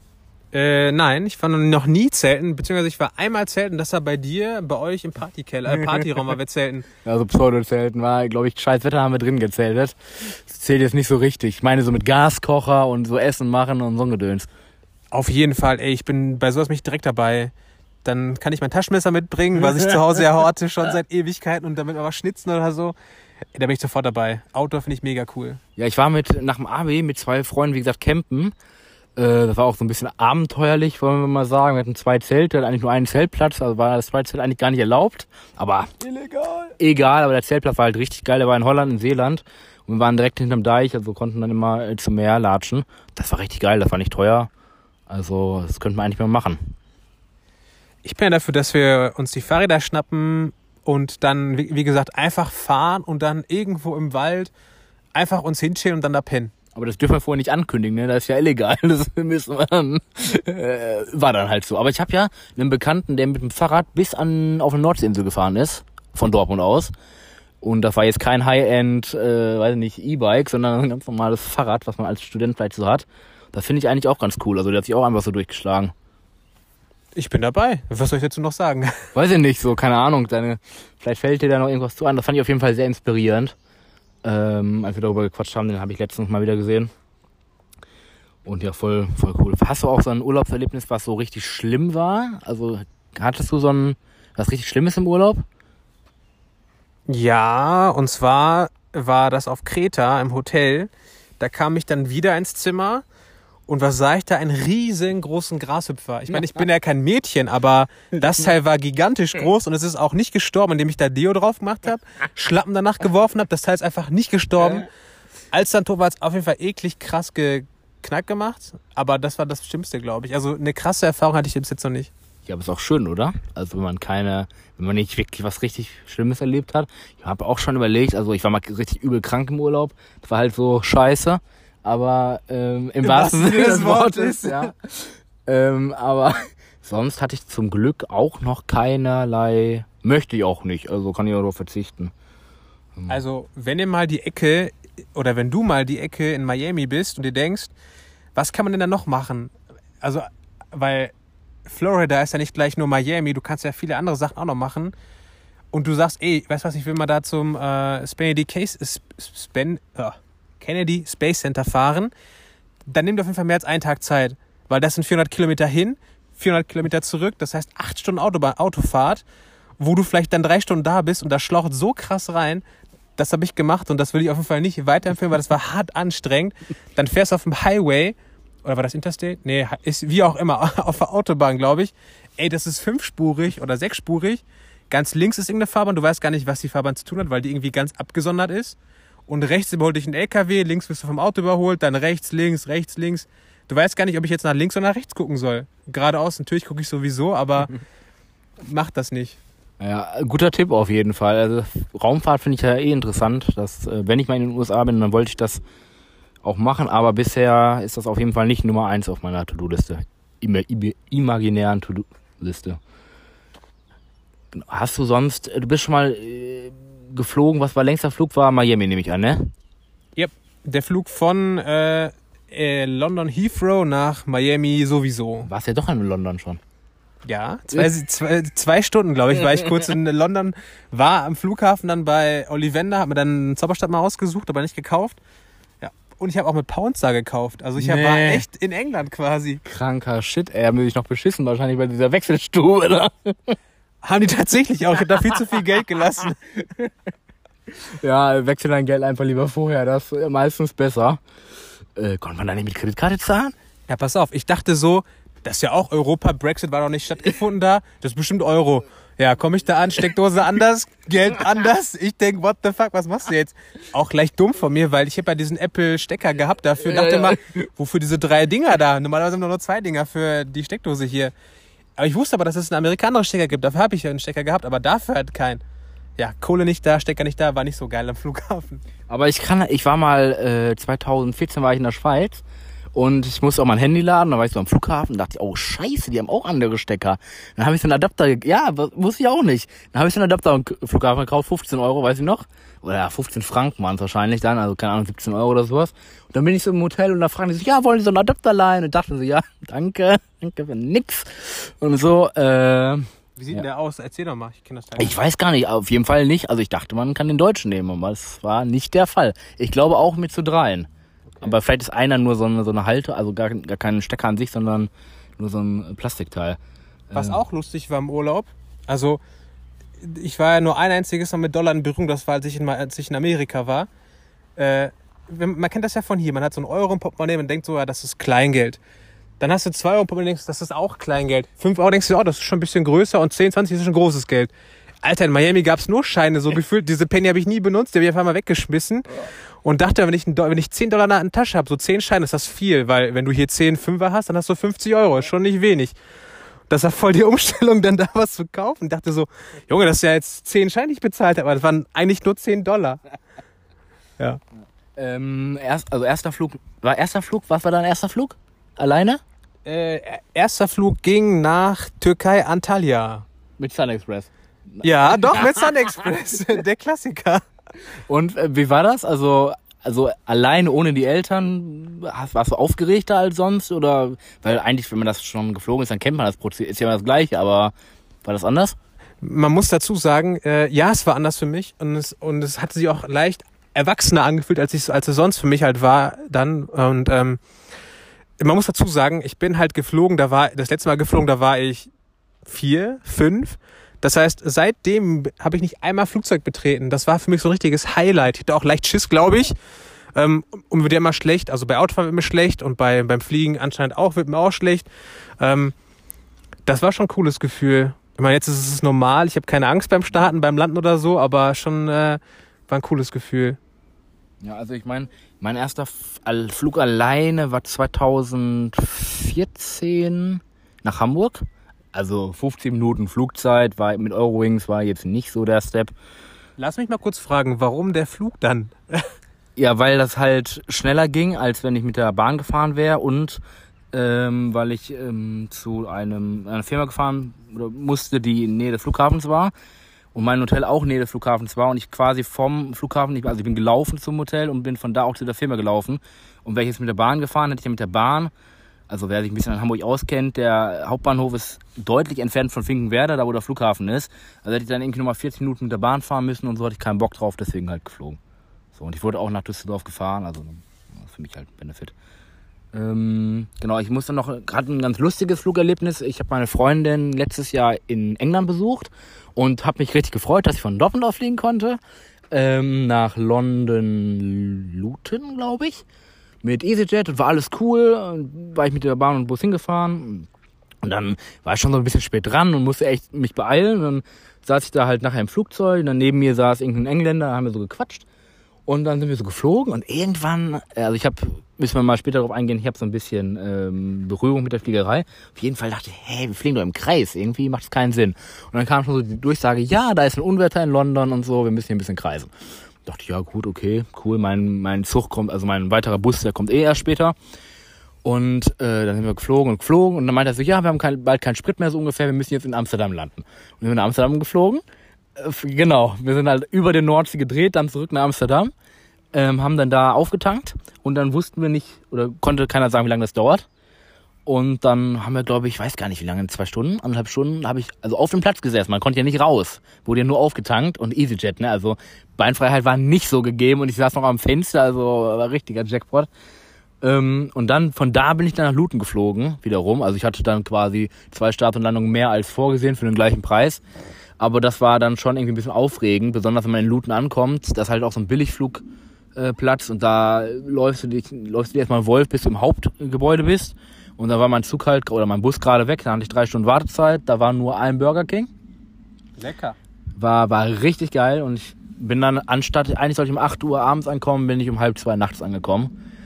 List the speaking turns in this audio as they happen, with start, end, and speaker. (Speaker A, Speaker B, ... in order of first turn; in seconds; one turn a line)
Speaker A: 0.5-6.9
Speaker B: 7.0-14.5
Speaker A: 15.1-17.5
Speaker A: 18.0-22.9
Speaker A: 23.5-25.6
Speaker B: 25.8-28.5
Speaker B: 29.2-44.5
Speaker B: 45.1-46.7
Speaker A: 48.0-54.5
Speaker A: 55.1-56.5
Speaker B: 56.7-66.9
Speaker B: 67.6-75.9
Speaker A: 77.1-79.0
Speaker B: 79.1-83.5
Speaker B: 84.2-86.9
Speaker B: 88.4-95.4
Speaker A: 97.1-103.0
Speaker A: 103.7-114.9
Speaker A: 115.5-122.1
Speaker B: 122.5-142.1
Speaker A: 133.0-134.7
Speaker A: 143.1-147.7
Speaker A: 148.3-151.1
Speaker A: 151.7-154.9
Speaker A: 155.7-162.1
Speaker A: 162.8-169.2
Speaker A: 169.8-172.6
Speaker A: 173.2-197.7
Speaker A: 198.6-199.4
Speaker B: 199.8-205.6
Speaker B: 206.4-212.8
Speaker B: 214.5-219.5
Speaker A: 220.2-225.5
Speaker B: 225.4-226.6
Speaker A: 227.2-235.2
Speaker A: 235.8-239.6
Speaker B: 237.8-238.4
Speaker B: 239.6-243.6
Speaker A: 244.0-246.5
Speaker B: 247.7-251.2
Speaker B: 252.0-253.5
Speaker A: 253.9-271.3
Speaker B: 266.9-267.3
Speaker A: 272.0-275.6
Speaker A: 276.2-278.8
Speaker B: 279.1-282.4
Speaker B: 282.9-303.6
Speaker A: 303.4-305.2
Speaker B: 305.0-310.9
Speaker B: 311.4-316.6
Speaker B: 317.1-317.4
Speaker A: 317.1-319.2
Speaker A: 320.0-323.9
Speaker A: 324.6-328.8
Speaker A: 329.4-334.5
Speaker A: 335.0-346.0
Speaker A: 346.7-353.0
Speaker B: 355.0-359.2
Speaker A: 359.6-363.2
Speaker B: 363.6-365.6
Speaker A: 364.8-367.4
Speaker B: 368.1-377.7
Speaker B: 378.2-378.8
Speaker A: 379.2-387.4
Speaker A: 388.4-391.9
Speaker A: 392.4-399.6
Speaker A: 400.1-404.9
Speaker A: 405.4-405.7
Speaker A: 406.6-413.6
Speaker B: 414.4-425.9
Speaker A: 426.6-429.1
Speaker B: 429.6-433.4
Speaker B: 433.9-439.5
Speaker B: 440.1-448.3
Speaker B: 448.9-458.2
Speaker B: 458.7-461.9
Speaker B: 462.7-471.8
Speaker B: 472.3-475.8
Speaker B: 476.4-480.3
Speaker B: 480.8-488.1
Speaker B: 488.7-502.3
Speaker B: 502.8-507.1
Speaker B: 508.0-514.6
Speaker B: 515.1-518.5
Speaker B: 519.1-523.5
Speaker B: 524.2-536.1
Speaker B: 536.8-543.6
Speaker B: 544.2-548.6
Speaker B: 549.1-558.3
Speaker A: 559.2-559.6
Speaker B: 560.0-565.7